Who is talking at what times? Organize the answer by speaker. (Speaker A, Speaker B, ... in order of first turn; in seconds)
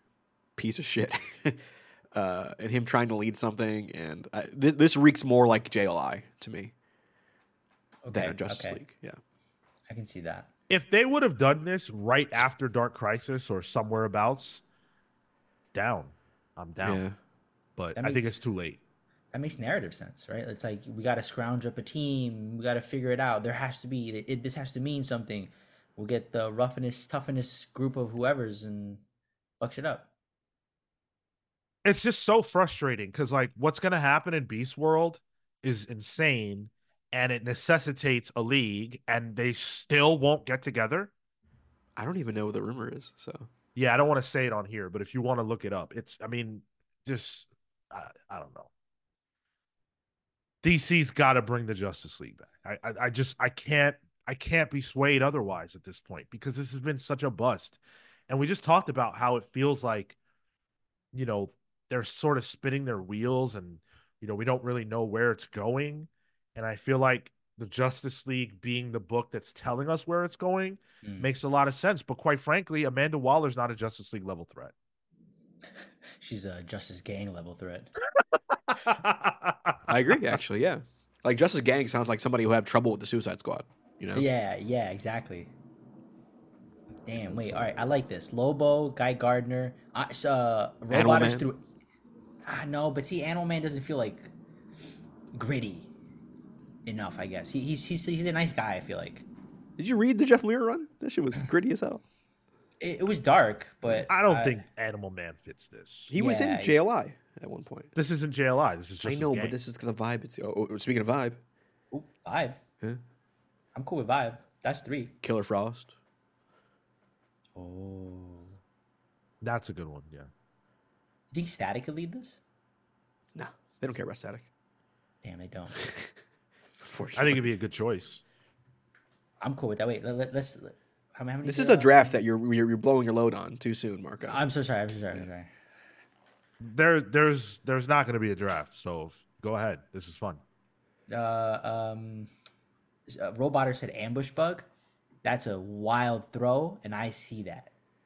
Speaker A: 0.6-6.7, 8.1-9.2, 16.8-17.2, 42.0-43.5, 79.9-84.3, 87.2-87.8, 90.9-91.5, 99.8-102.0, 106.1-107.9, 109.0-111.4, 115.2-115.9, 123.3-124.5, 125.8-126.1, 126.8-127.5, 131.4-134.4
Speaker B: 8.0-8.8, 9.9-10.5, 18.0-18.4, 19.3-29.0, 29.6-30.1, 71.0-71.3, 76.2-77.9, 84.1-85.5, 87.1-91.6, 92.5-94.3, 95.3-95.9, 96.9-99.3, 102.8-104.6, 106.2-106.8, 111.9-112.6, 113.8-115.2, 117.5-118.6, 121.3-122.4, 125.2-125.8, 129.4-132.2, 134.2-135.5, 141.1-142.3, 143.1-144.7, 145.2-147.7
Speaker C: 10.7-14.6, 15.7-17.0, 17.8-18.8, 31.9-41.1, 43.8-48.7, 50.6-60.2, 61.1-74.7, 78.7-79.9, 104.1-106.1, 108.0-109.6, 119.4-120.3, 127.2-128.2, 136.6-140.4